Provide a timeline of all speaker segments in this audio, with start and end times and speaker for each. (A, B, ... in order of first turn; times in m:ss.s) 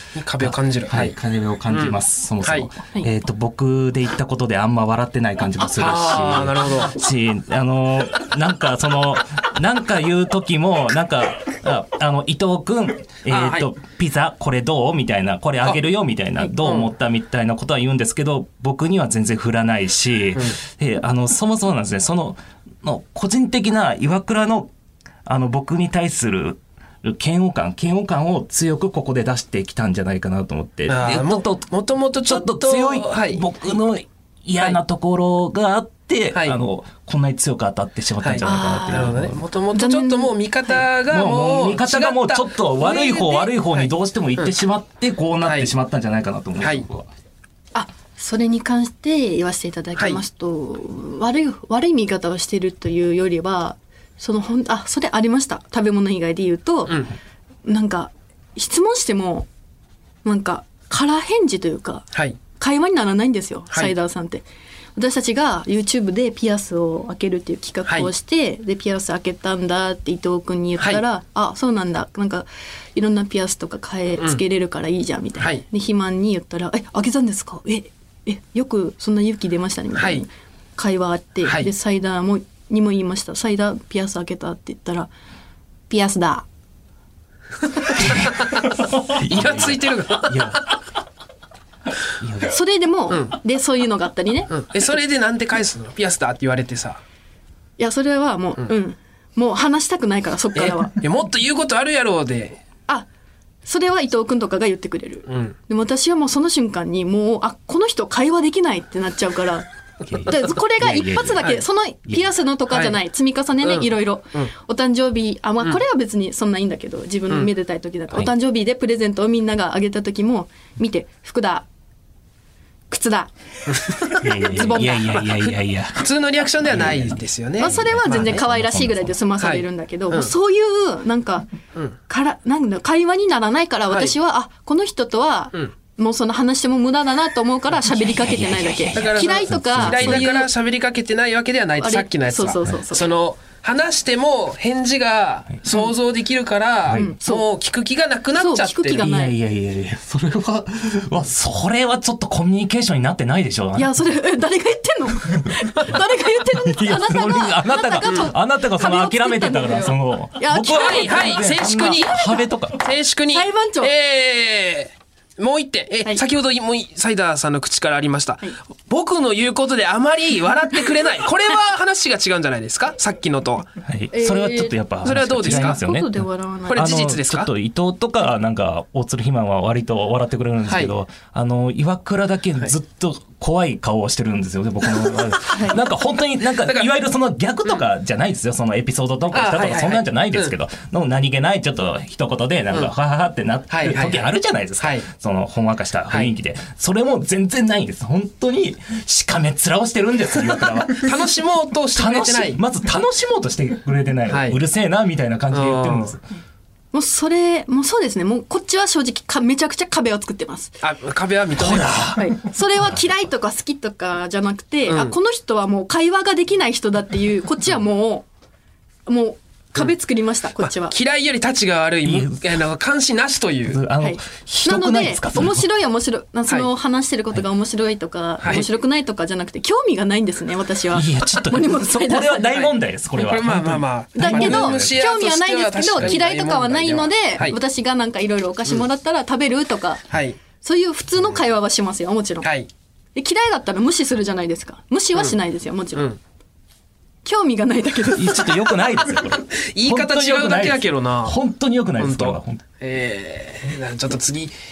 0:00.2-0:01.2 A
0:00.4-0:24.7 B
0:01.7-0:02.7 A
0:05.8-0:07.0 A
0:13.3-0:13.7 A
0:16.6-0:16.9 A
0:25.2-0:31.7 B
0:30.9-0:33.4 A
0:32.2-0:39.4 B
0:38.2-0:44.5 A
0:38.4-0:39.2 C
0:39.7-0:40.8 C
0:41.1-0:47.1 B
0:45.4-0:45.7 A
0:46.6-0:46.9 A
0:47.7-0:57.1 C
0:57.6-0:59.5 C
1:00.2-1:04.4 C
1:05.0-1:25.1 C
1:20.0-1:20.2 A
1:25.9-1:26.5 C
1:28.0-1:30.7 B
1:28.2-1:30.6 A
1:32.2-1:32.6 B
1:32.4-1:34.5 C
1:34.5-1:37.0 A
1:37.8-1:41.0 C
1:40.5-1:42.6 A
1:43.7-1:49.7 C
1:45.3-1:45.6 A
1:50.1-1:51.5 B
1:50.2-2:01.7 C
1:52.7-1:53.0 A
1:53.6-1:54.5 A
2:02.9-2:05.2 C
2:03.7-2:04.2 A
2:04.1-2:06.1 B
2:05.2-2:08.4 A
2:06.6-2:09.1 B
2:07.6-2:11.5 C
2:09.4-2:10.3 A
2:12.1-2:20.5 C
2:17.9-2:20.2 B
2:18.9-2:29.1 A
2:21.8-2:23.0 C
2:26.9-2:27.1 B
2:26.9-2:27.4 C
2:28.4-2:29.3 C
2:29.0-2:33.9 B
2:33.8-2:41.5 C
2:36.5-2:42.8 B
2:40.7-2:53.7 A
2:42.0-2:42.4 C
2:43.3-2:43.9 C
2:53.8-2:56.2 B
2:54.1-2:54.8 C
2:55.0-2:55.8 A
2:55.4-2:56.9 C
2:56.7-2:57.5 A
2:56.8-3:21.2 B
3:00.7-3:00.9 A
3:06.7-3:06.9 A
3:09.3-3:10.5 A
3:13.7-3:15.1 A
3:21.0-3:22.6 A
3:22.0-3:26.2 B
3:24.3-3:24.6 A
3:25.5-3:26.2 A
3:26.9-3:30.7 C
3:30.8-3:32.1 A
3:31.6-3:32.4 B
3:32.2-3:38.3 C
3:34.9-3:35.2 A
3:39.1-3:40.9 C
3:40.8-3:43.8 A
3:42.0-3:42.5 B
3:43.7-3:45.6 B
3:44.0-3:52.5 C
3:50.9-3:55.0 B
3:52.5-3:57.6 A
3:54.2-4:00.0 C
4:00.1-4:00.4 A
4:00.6-4:02.5 C
4:02.4-4:02.7 A
4:03.2-4:06.1 C
4:07.2-4:08.6 C
4:08.1-4:12.6 B
4:09.5-4:11.4 A
4:12.0-4:14.6 A